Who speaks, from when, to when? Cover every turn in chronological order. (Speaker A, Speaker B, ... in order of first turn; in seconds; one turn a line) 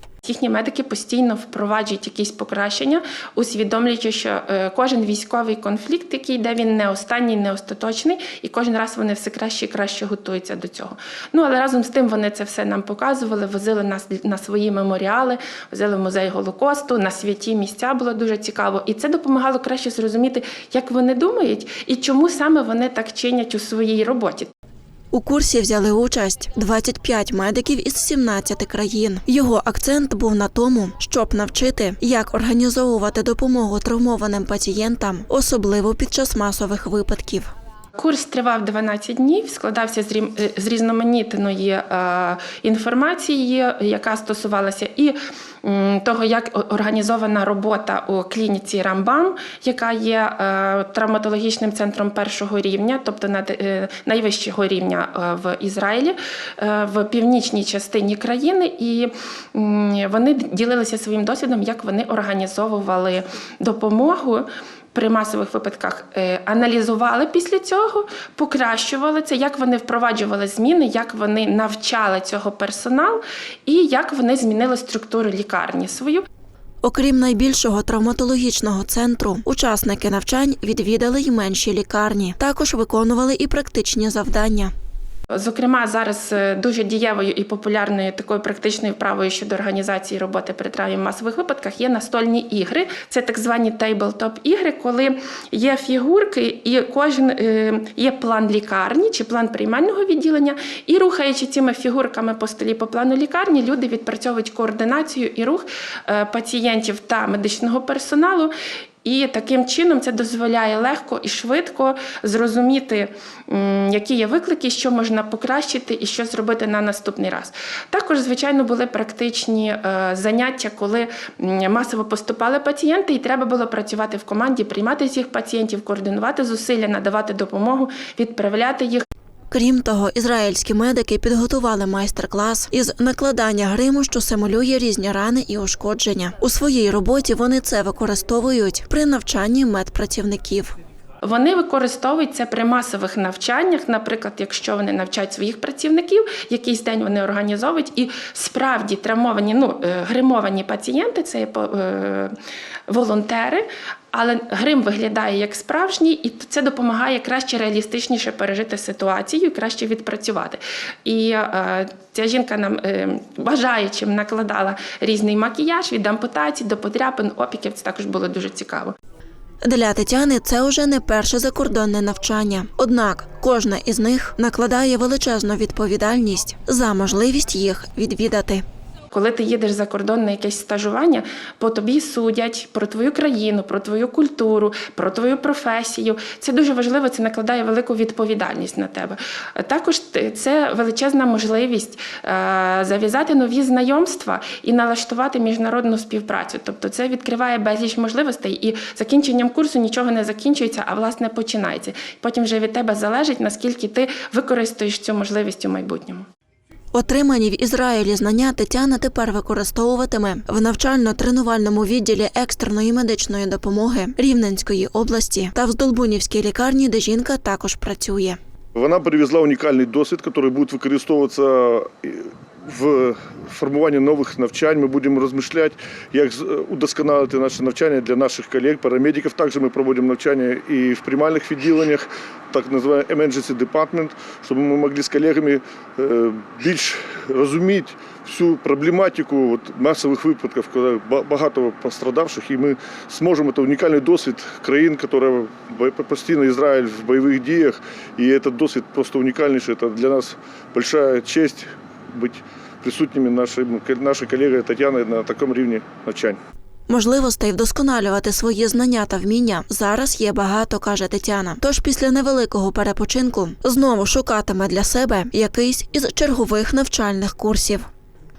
Speaker A: 0.2-24.5
Speaker B: 25.1-37.5
Speaker A: 38.0-76.3
Speaker B: 76.8-84.7
Speaker A: 85.3-108.5
Speaker A: 109.0-129.1
Speaker B: 129.5-140.7
Speaker A: 141.2-152.4
Speaker A: 152.9-169.0
Speaker B: 169.6-178.6
Speaker A: 179.1-206.3
Speaker B: 206.9-218.4
Speaker C: 218.8-256.4
Speaker B: 256.9-267.9